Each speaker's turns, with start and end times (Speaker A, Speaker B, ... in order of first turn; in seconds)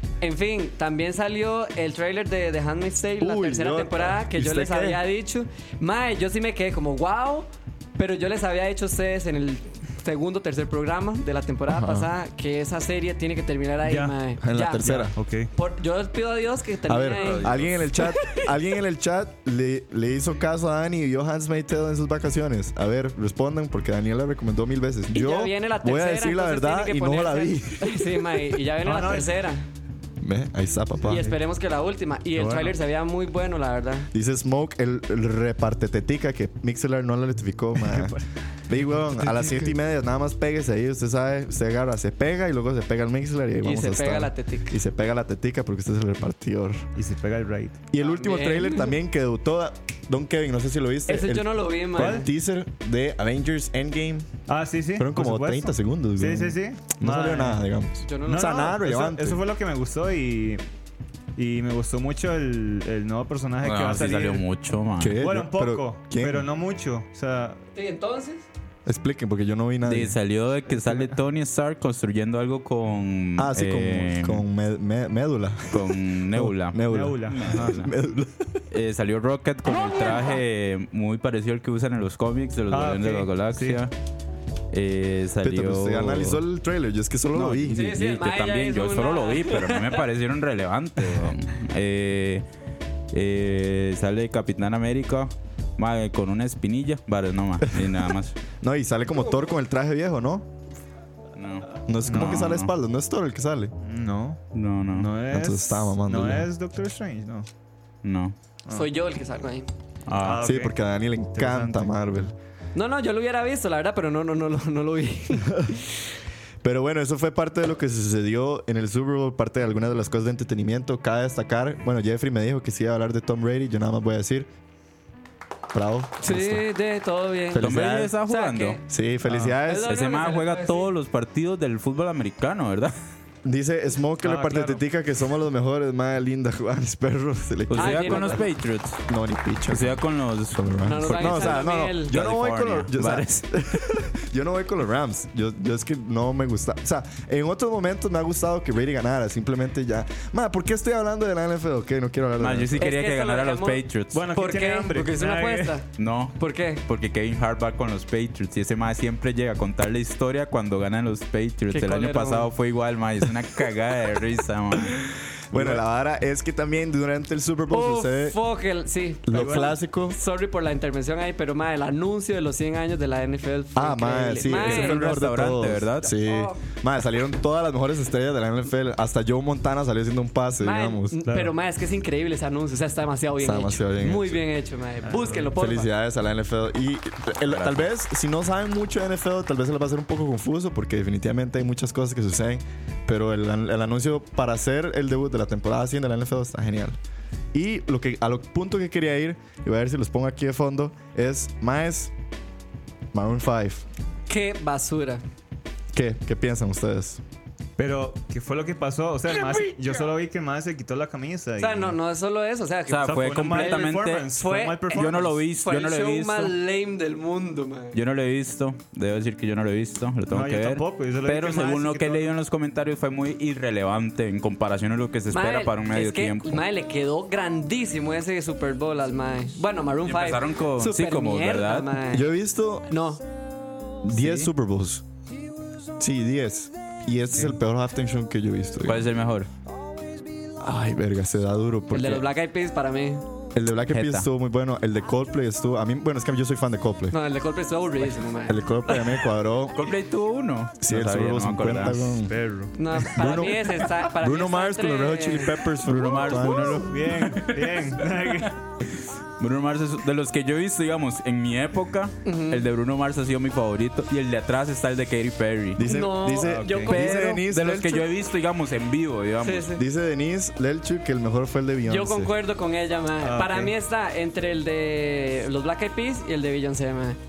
Speaker A: 0.2-17.5, 18.1-18.4, 25.1-29.7, 31.0-34.1, 43.6-44.8, 48.0-49.0, 51.1-52.3, 58.0-58.8, 67.8-68.5, 87.7-90.0, 108.7-109.7, 112.8-115.8, 126.2-128.8, 129.6-130.9, 137.7-138.4, 140.8-142.2, 152.8-156.8, 161.7-162.5, 167.7-175.0, 176.1-176.6, 180.6-185.9, 204.3-205.2, 209.3-210.0, 211.6-218.0, 225.3-232.3, 232.9-233.2, 241.9-243.2, 247.1-249.2, 252.8-255.5, 262.2-262.6, 265.8-267.1, 269.4-269.8, 271.9-277.2
Speaker B: 3.2-5.0, 11.7-12.1, 14.4-15.2, 16.9-28.4, 30.2-31.3, 34.1-38.2, 38.7-46.9, 47.9-54.3, 55.0-59.4, 65.0-66.5, 68.9-70.2, 73.4-78.6, 85.4-87.8, 97.7-98.0, 98.6-100.5, 101.9-103.7, 105.3-106.5, 110.4-112.3, 116.6-124.5, 125.7-126.7, 127.5-128.1, 128.9-129.9, 133.4-138.4, 139.1-152.9, 165.5-168.4, 169.3-170.2, 173.8-181.2, 183.4-184.4, 185.5-197.0, 197.5-202.1, 203.1-203.8, 205.9-207.2, 232.1-232.9, 234.0-235.0, 236.0-239.0, 240.6-242.2, 243.5-247.2, 248.5-249.9, 250.8-252.3, 253.1-257.0, 265.8-268.1, 269.8-272.3
Speaker C: 13.8-14.2, 14.8-15.5, 28.8-29.4, 31.1-31.4, 32.4-32.8, 37.8-38.2, 39.2-39.6, 47.0-47.8, 52.0-52.3, 54.5-57.6, 58.3-60.6, 61.4-64.4, 65.2-67.6, 70.7-71.1, 76.9-77.8, 82.7-83.8, 102.1-102.5, 103.8-104.4, 104.9-107.5, 110.2-110.8, 111.3-112.0, 129.2-129.6, 134.2-134.8, 154.1-155.8, 165.5-165.8, 169.3-169.7, 181.3-181.5, 185.1-185.5, 207.8-212.0, 213.1-215.4, 220.3-222.3, 252.3-253.1, 256.7-258.6, 266.4-266.9, 273.2-273.7
Speaker D: 17.2-17.9, 63.6-65.2, 69.8-74.4, 75.7-77.9, 78.7-83.9, 84.7-86.4, 87.3-92.4, 93.1-98.4, 101.3-102.7, 104.5-105.1, 108.0-108.3, 110.1-110.5, 127.6-128.8, 129.8-132.9, 137.7-139.0, 139.7-143.4, 152.4-154.3, 156.0-165.0, 174.5-176.1, 187.5-187.8, 212.9-214.3, 214.9-216.6, 217.9-226.6, 230.0-231.9, 238.8-239.5, 243.9-244.3, 249.7-252.2, 255.8-265.9, 266.9-269.7